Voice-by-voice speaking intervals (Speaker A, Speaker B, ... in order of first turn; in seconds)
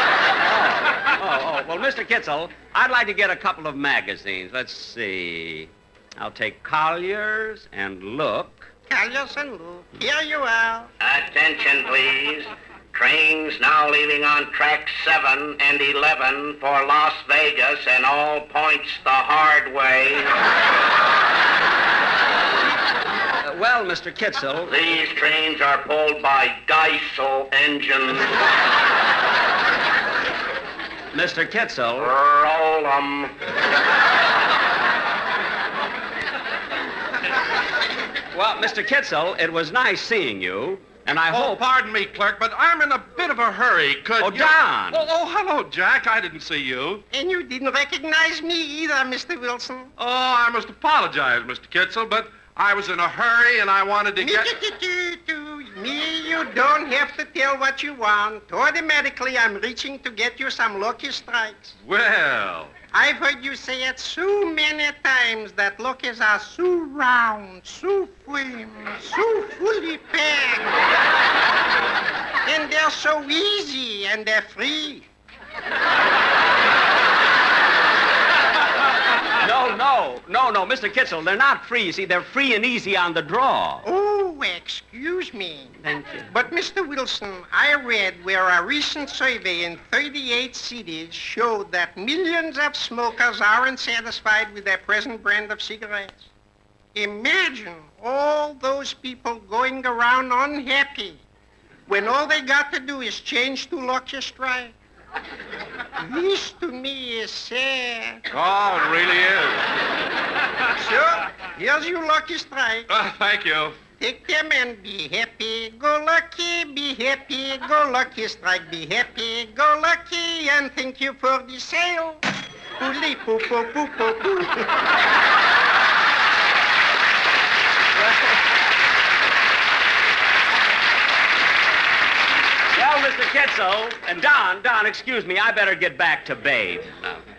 Speaker A: 0.4-8.7, 23.4-24.7, 31.1-32.1, 38.3-41.6, 44.2-45.1, 61.9-62.1, 79.4-83.8, 85.8-86.3, 132.7-137.2
Speaker B: 8.9-10.9, 47.1-49.9, 54.2-61.7, 62.9-70.7, 72.5-75.1, 83.8-85.8, 86.3-96.3, 97.0-101.2, 101.9-104.7, 106.0-108.2, 110.8-112.9, 114.0-122.2, 122.8-124.6
Speaker C: 11.0-20.3, 24.7-28.4, 32.0-33.3
Speaker D: 41.3-47.0, 50.0-54.5, 108.3-109.6, 113.0-113.7